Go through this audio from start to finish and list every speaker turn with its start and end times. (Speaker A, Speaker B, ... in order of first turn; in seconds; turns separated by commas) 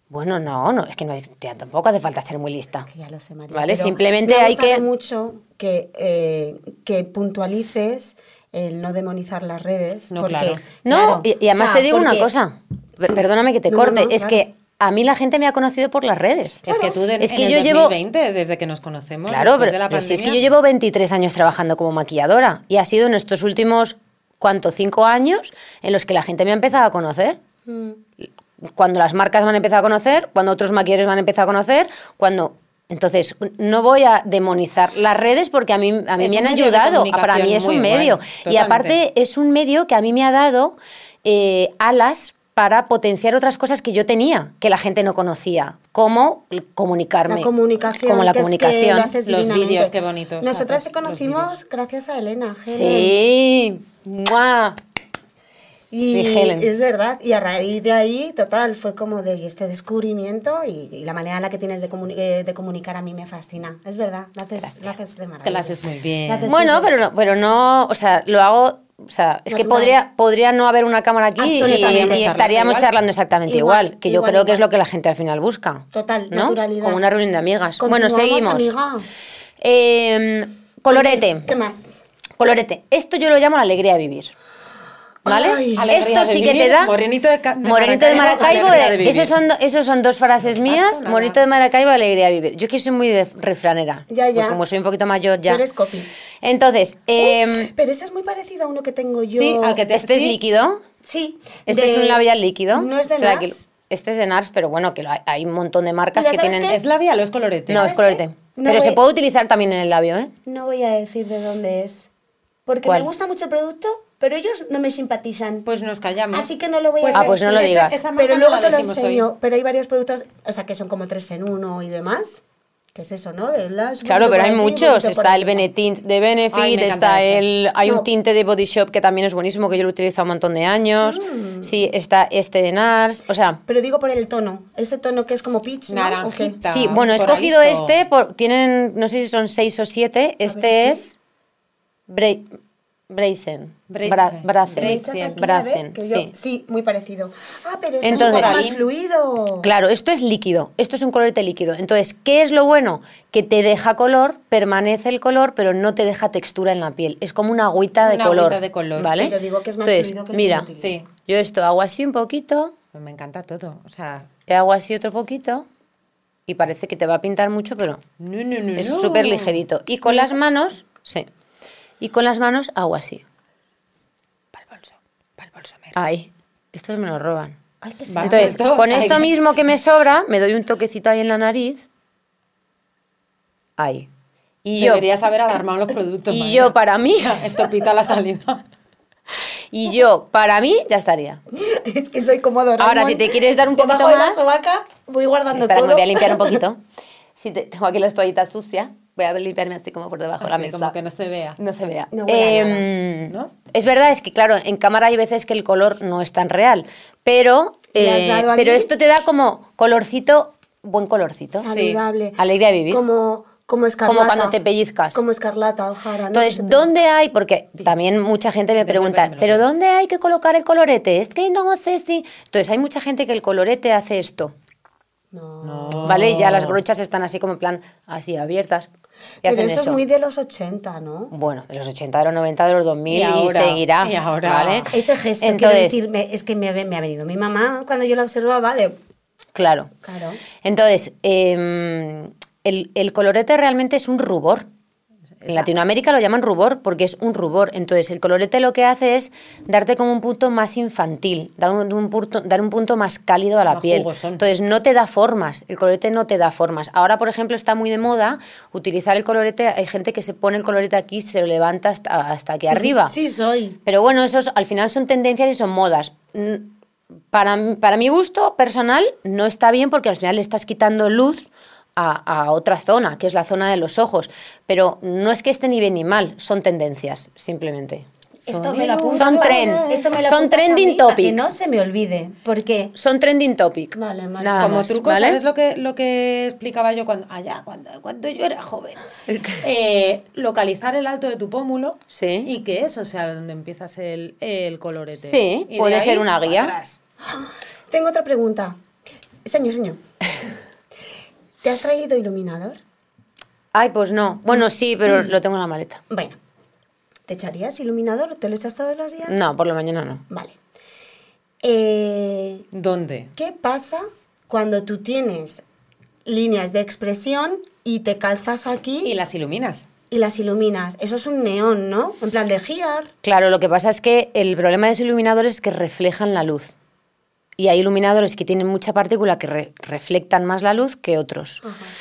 Speaker A: 0.1-2.9, Speaker B: 2.9-12.3, Speaker A: 3.5-4.8, Speaker C: 10.1-10.6, Speaker A: 10.8-16.6, Speaker B: 13.7-14.4, Speaker C: 16.6-20.4, Speaker B: 16.7-17.0, Speaker A: 17.2-17.9, Speaker A: 19.3-27.4, Speaker B: 27.7-28.0, Speaker A: 28.2-49.1, Speaker C: 36.2-39.0, Speaker B: 47.3-53.1, Speaker C: 49.2-51.5, Speaker A: 52.7-54.8, Speaker B: 55.9-66.9, Speaker A: 56.1-56.7, Speaker C: 65.4-66.5, Speaker A: 66.4-78.7, Speaker B: 69.5-69.9, Speaker B: 71.4-72.3, Speaker C: 71.6-72.9, Speaker B: 73.5-74.6, Speaker B: 75.9-77.0, Speaker B: 77.8-79.1, Speaker A: 79.6-81.5, Speaker B: 80.9-82.0, Speaker A: 82.4-84.3, Speaker B: 85.2-85.9, Speaker A: 85.2-86.9, Speaker C: 85.8-89.4, Speaker A: 87.6-95.6, Speaker B: 88.1-88.8, Speaker C: 90.5-91.4, Speaker B: 94.1-94.6, Speaker B: 95.5-96.1, Speaker A: 96.4-97.7, Speaker B: 97.2-99.8, Speaker C: 99.3-100.4, Speaker A: 99.9-100.8, Speaker B: 101.0-102.2, Speaker A: 101.7-106.8, Speaker B: 102.7-103.6, Speaker B: 106.1-106.8, Speaker C: 106.7-107.9, Speaker A: 107.7-110.3, Speaker B: 107.7-109.0, Speaker B: 110.5-112.1, Speaker B: 112.7-115.7, Speaker C: 115.7-119.3, Speaker B: 116.3-122.4, Speaker A: 117.1-118.0, Speaker B: 122.9-125.7, Speaker A: 124.0-133.6, Speaker C: 126.5-127.5, Speaker B: 131.0-131.7, Speaker B: 133.7-136.6, Speaker C: 135.9-137.9, Speaker A: 136.7-141.1, Speaker B: 140.4-141.0, Speaker A: 142.1-142.5, Speaker A: 143.1-146.3, Speaker C: 143.9-145.4, Speaker B: 144.8-149.7, Speaker A: 148.0-148.6, Speaker C: 148.1-148.8, Speaker A: 149.6-160.7, Speaker C: 158.0-159.1, Speaker B: 159.1-161.0, Speaker C: 160.8-161.1, Speaker A: 161.2-162.7, Speaker C: 162.9-164.3, Speaker A: 164.5-165.7, Speaker A: 166.5-168.0, Speaker C: 168.2-169.6, Speaker A: 168.8-171.3, Speaker B: 170.1-170.4, Speaker A: 172.0-173.2, Speaker C: 174.5-175.9, Speaker A: 175.9-177.6, Speaker B: 177.8-178.7, Speaker C: 178.1-179.3, Speaker A: 178.2-181.8, Speaker A: 183.8-184.1, Speaker A: 184.6-185.1, Speaker C: 184.8-188.7, Speaker A: 186.3-187.4, Speaker A: 189.7-191.4, Speaker B: 191.5-196.6, Speaker A: 192.8-194.4, Speaker A: 195.5-196.8, Speaker A: 197.3-200.9, Speaker C: 200.4-201.6, Speaker A: 201.6-211.7, Speaker B: 202.1-202.9, Speaker C: 203.3-203.5, Speaker B: 207.9-208.9, Speaker B: 211.6-214.5, Speaker C: 211.7-212.0, Speaker A: 212.4-213.0, Speaker A: 214.0-215.2, Speaker B: 215.1-216.9, Speaker A: 216.3-224.5, Speaker C: 218.8-219.7, Speaker B: 225.3-226.2, Speaker C: 225.6-226.8, Speaker A: 226.0-228.9, Speaker A: 229.4-230.0, Speaker B: 229.4-231.3, Speaker A: 231.3-236.0, Speaker C: 233.1-234.9, Speaker B: 234.9-239.0, Speaker A: 239.5-239.9, Speaker B: 240.0-240.4, Speaker A: 240.6-244.7, Speaker C: 245.4-245.7, Speaker A: 245.4-263.1, Speaker C: 253.7-254.4, Speaker B: 262.7-263.8, Speaker A: 263.9-266.7, Speaker A: 267.3-278.1, Speaker B: 278.4-282.9, Speaker C: 278.5-280.1, Speaker A: 279.1-281.4, Speaker A: 282.9-285.4, Speaker B: 283.9-284.9, Speaker C: 284.6-289.0, Speaker A: 289.3-289.6, Speaker C: 289.6-297.0, Speaker A: 292.1-292.5, Speaker A: 295.2-296.8, Speaker B: 297.2-298.8, Speaker B: 299.4-300.0, Speaker B: 301.6-302.8, Speaker A: 303.7-306.0, Speaker B: 306.1-306.4, Speaker B: 307.3-309.4, Speaker A: 309.3-310.2, Speaker B: 310.3-310.6, Speaker B: 311.6-312.6, Speaker C: 312.7-313.3, Speaker B: 313.4-315.6, Speaker B: 316.2-319.1, Speaker C: 319.0-319.9, Speaker B: 320.1-323.1, Speaker A: 323.2-326.7, Speaker A: 327.6-331.6, Speaker B: 331.6-331.9